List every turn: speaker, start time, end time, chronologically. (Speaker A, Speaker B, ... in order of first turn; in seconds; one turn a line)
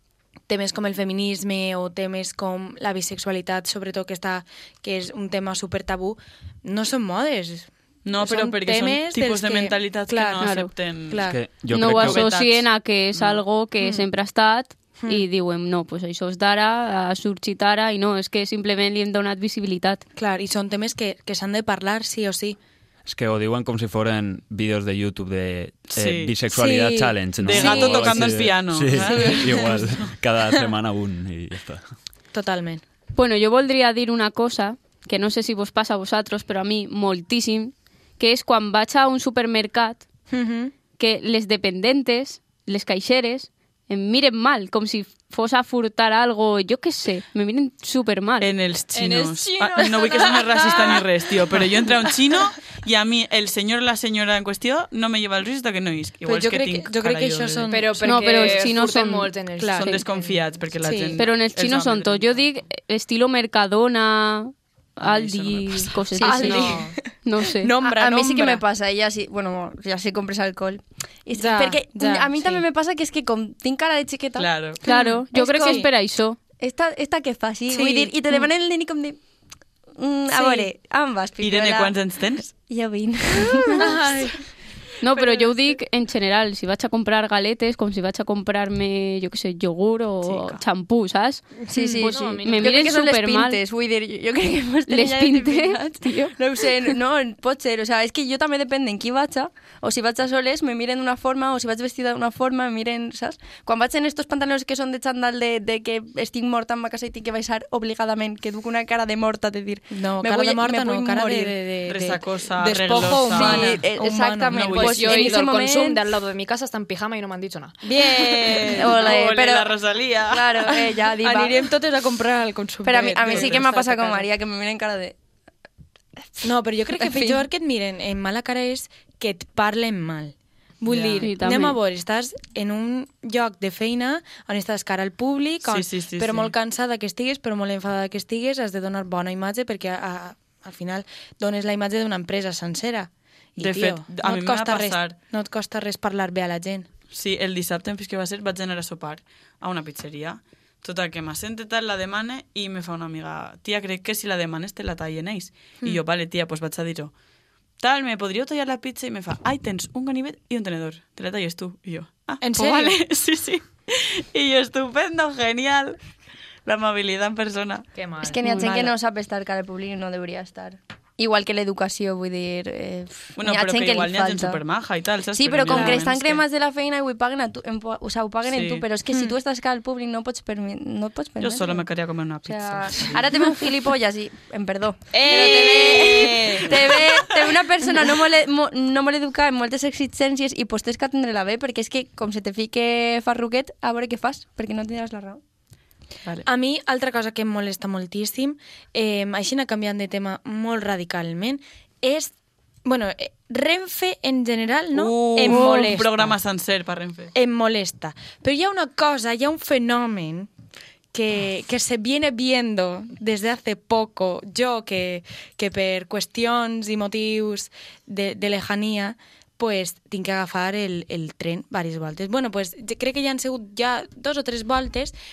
Speaker A: 0.5-10.4
Speaker B: 8.1-11.2
Speaker C: 10.4-10.7
Speaker A: 11.1-11.4
Speaker D: 11.2-12.3
Speaker C: 11.7-20.0
Speaker B: 11.9-12.7
Speaker A: 13.8-14.1
Speaker A: 15.0-15.3
Speaker A: 20.2-22.6
Speaker D: 23.1-31.8
Speaker B: 25.9-26.3
Speaker A: 26.5-29.9
Speaker B: 27.4-30.1
Speaker A: 32.3-32.8
Speaker C: 33.1-40.0
Speaker A: 40.3-40.7
Speaker C: 41.0-48.5
Speaker B: 48.4-57.7
Speaker E: 48.9-51.0
Speaker A: 50.6-50.9
Speaker A: 56.3-58.6
Speaker E: 57.7-60.4
Speaker C: 58.0-59.3
Speaker A: 59.6-59.9
Speaker B: 59.7-62.4
Speaker A: 60.8-61.2
Speaker C: 61.2-66.7
Speaker B: 65.0-66.8
Speaker F: 66.2-66.8
Speaker A: 66.2-66.9
Speaker E: 66.4-66.9
Speaker C: 67.2-67.7
Speaker A: 67.6-68.6
Speaker F: 67.8-74.5
Speaker A: 71.4-72.6
Speaker B: 74.4-74.8
Speaker A: 74.8-75.9
Speaker C: 74.8-76.4
Speaker F: 76.6-79.2
Speaker A: 77.7-78.1
Speaker F: 80.0-82.0
Speaker A: 80.3-80.7
Speaker B: 81.4-82.5
Speaker F: 82.5-84.0
Speaker A: 83.7-84.4
Speaker C: 85.0-93.6
Speaker B: 90.2-90.6
Speaker F: 91.6-111.6
Speaker A: 91.7-92.1
Speaker E: 92.0-92.9
Speaker C: 94.9-96.3
Speaker A: 109.9-115.3
Speaker B: 111.9-113.8
Speaker F: 113.0-116.1
Speaker B: 114.5-115.4
Speaker E: 114.7-117.8
Speaker F: 117.9-121.6
Speaker A: 117.9-119.3
Speaker B: 118.0-120.9
Speaker A: 121.2-124.3
Speaker F: 122.8-125.2
Speaker B: 123.3-123.7
Speaker A: 126.4-146.9
Speaker F: 126.9-127.5
Speaker B: 130.9-131.3
Speaker C: 131.2-131.8
Speaker B: 135.6-136.5
Speaker B: 143.6-145.2
Speaker B: 147.1-157.1
Speaker B: 157.8-166.0
Speaker A: 162.4-163.0
Speaker B: 166.7-167.9
Speaker E: 167.9-168.4
Speaker F: 168.2-174.6
Speaker C: 168.4-168.7
Speaker A: 168.6-168.9
Speaker B: 173.4-176.4
Speaker F: 175.3-181.9
Speaker A: 175.7-176.0
Speaker B: 178.5-178.9
Speaker A: 179.1-179.3
Speaker B: 181.4-183.3
Speaker F: 182.4-195.4
Speaker B: 185.1-187.6
Speaker A: 196.4-202.3
Speaker A: 202.8-206.4
Speaker B: 204.9-207.3
Speaker A: 207.3-210.5
Speaker A: 211.1-225.1